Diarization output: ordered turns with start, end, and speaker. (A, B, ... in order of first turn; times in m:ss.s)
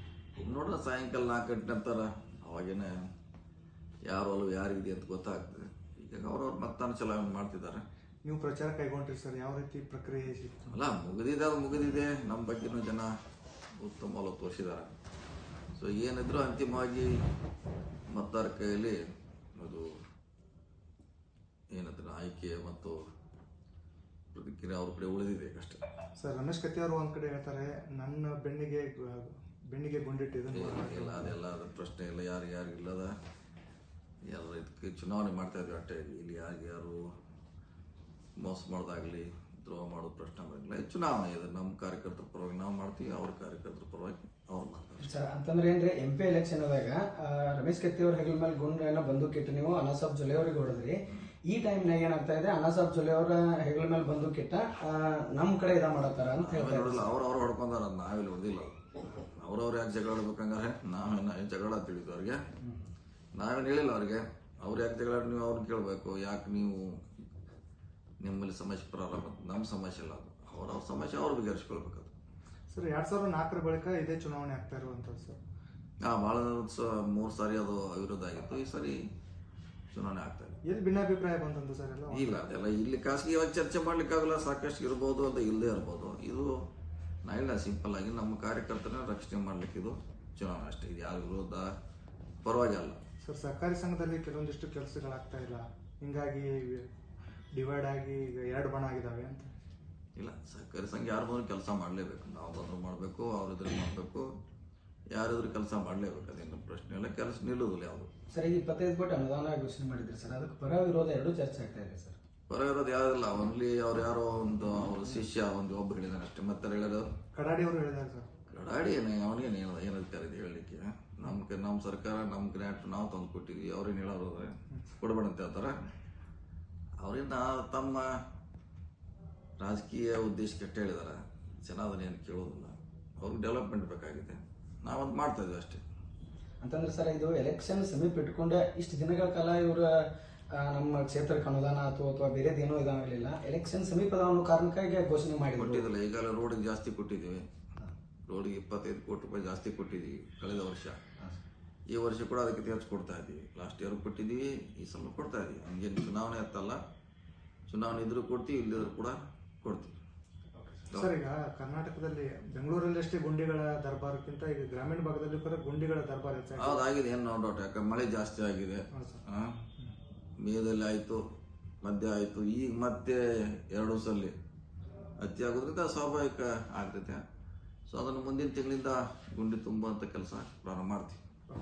0:00.3-0:02.9 A
0:04.1-0:07.8 A
0:08.2-0:10.7 B
0:10.7-0:13.1 A
0:13.8-0:14.9 A
0:15.8-0:17.1 A
0:18.1-0:19.0 A
0:19.6-0:19.9 A
0:21.7-0:23.0 A
0:24.3-0:25.8 A
0:26.2-0:31.4 B
0:30.5-0:33.1 A
0:34.3-0:37.0 A
0:38.4-0:45.1 A
0:45.0-0:57.1 C
0:56.4-1:02.4 A
1:03.4-1:07.0 A
1:08.2-1:12.1 A
1:12.7-1:15.4 B
1:16.0-1:19.0 A
1:19.9-1:20.6 A
1:20.6-1:22.5 B
1:22.1-1:26.5 A
1:27.2-1:31.7 A
1:32.4-1:33.0 A
1:33.2-1:36.9 B
1:37.6-1:39.5 B
1:40.2-1:44.3 A
1:45.1-1:48.1 A
1:48.3-1:52.2 C
1:52.5-1:57.1 A
1:57.3-1:58.3 B
1:58.5-2:05.7 A
2:07.0-2:08.1 A
2:09.6-2:15.8 A
2:16.6-2:19.9 C
2:20.6-2:25.9 C
2:25.5-2:27.4 A
2:28.3-2:31.0 A
2:31.9-2:36.8 A
2:37.7-2:39.9 A
2:40.6-2:40.9 C
2:40.9-2:46.8 B
2:46.6-2:49.6 A
2:48.9-2:49.2 B
2:50.4-2:51.2 A
2:51.8-2:54.3 A
2:55.2-2:57.2 A
2:57.9-3:01.2 A